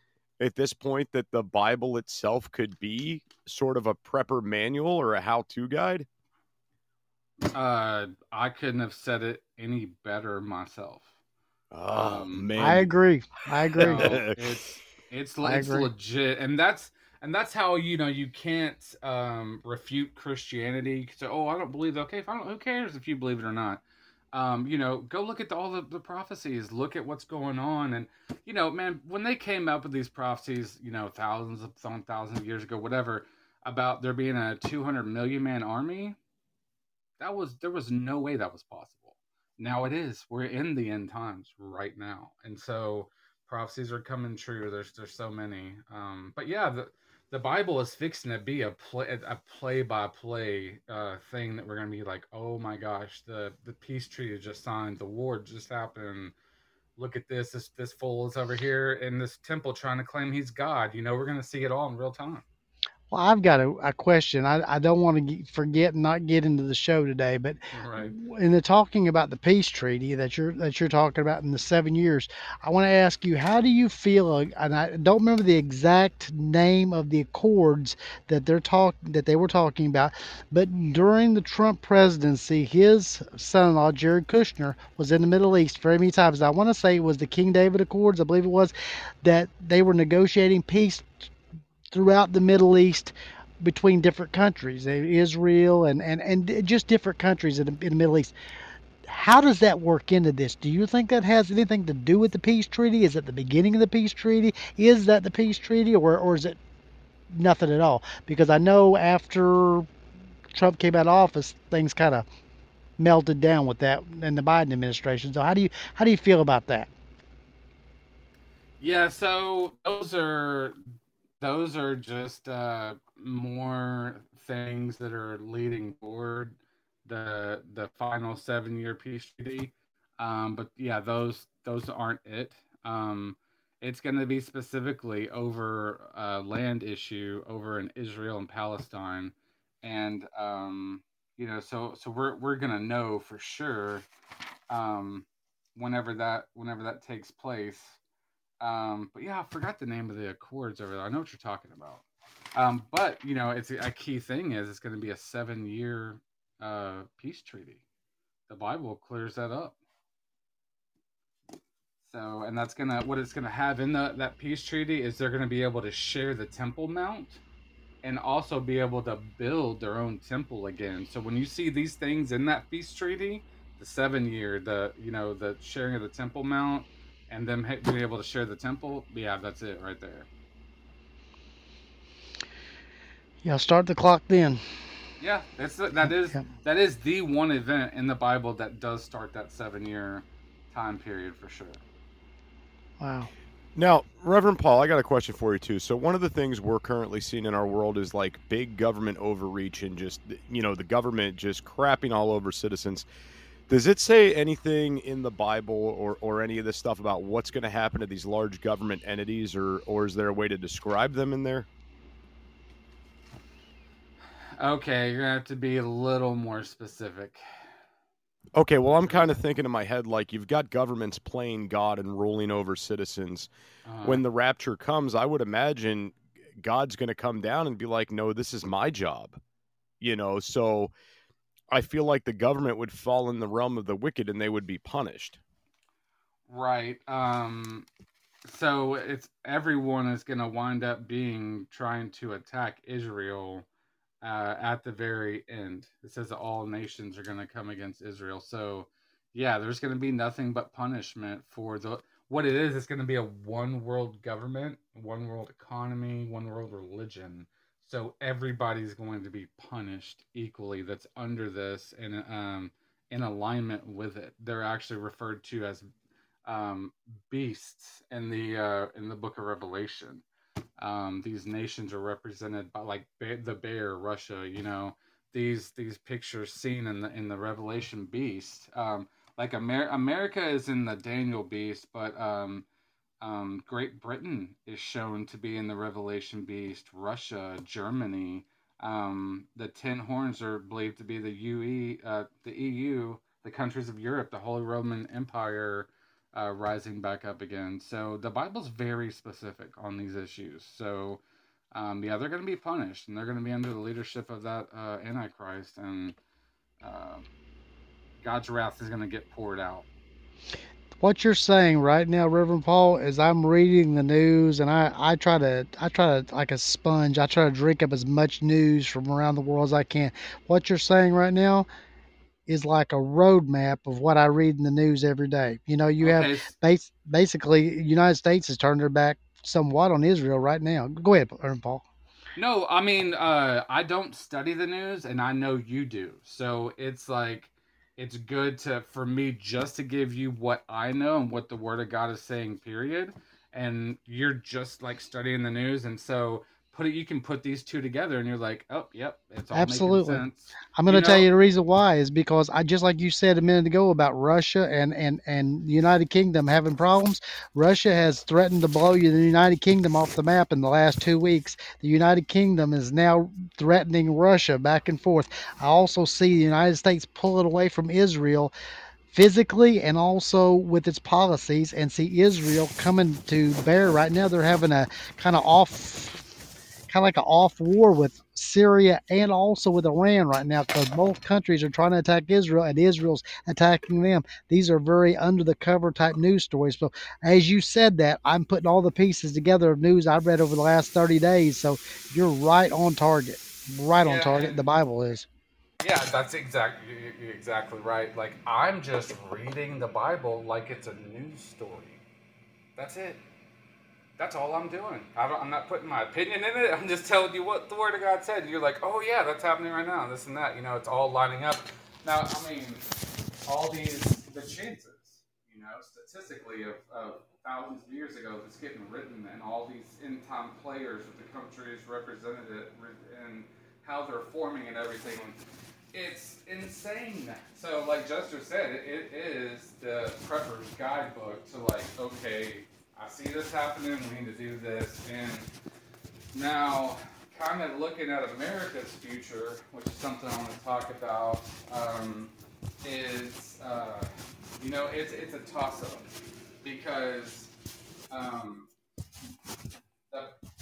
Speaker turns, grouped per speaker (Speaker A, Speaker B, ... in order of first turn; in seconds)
Speaker A: 0.4-6.1, 11.7-12.9, 13.8-14.5, 193.8-203.1, 203.7-211.7, 218.5-223.5, 224.0-229.4, 230.0-230.9, 231.7-235.4
Speaker B: 7.4-11.1, 11.9-12.5, 13.8-23.8, 24.3-36.2, 37.2-56.3, 57.0-62.4, 67.7-68.2, 118.8-120.8, 121.4-144.1, 144.7-148.0, 148.6-152.0, 152.6-157.8, 158.5-159.8, 162.1-167.4, 168.0-180.3, 185.2-191.8, 214.6-217.4, 219.0-219.3, 223.8-224.2, 236.5-237.9, 238.4-243.7, 244.2-265.9, 266.4-270.2, 270.8-282.6, 283.2-301.2, 301.7-306.1, 306.8-307.3, 308.2-309.9, 326.0-326.6, 332.4-351.3, 394.0-394.6, 395.8-402.0, 402.8-403.2, 404.2-412.9, 413.5-425.4, 425.9-435.5, 436.3-446.1, 446.6-447.5, 448.1-448.7, 450.1-450.4
Speaker C: 12.6-14.2, 15.4-15.9, 63.1-91.3, 91.9-98.3, 99.1-106.6, 107.3-109.9, 110.5-112.2, 113.0-116.9, 183.4-184.6, 193.0-193.3, 311.0-321.7, 322.5-331.8, 349.5-350.3, 350.8-368.5, 369.1-376.2, 376.9-395.3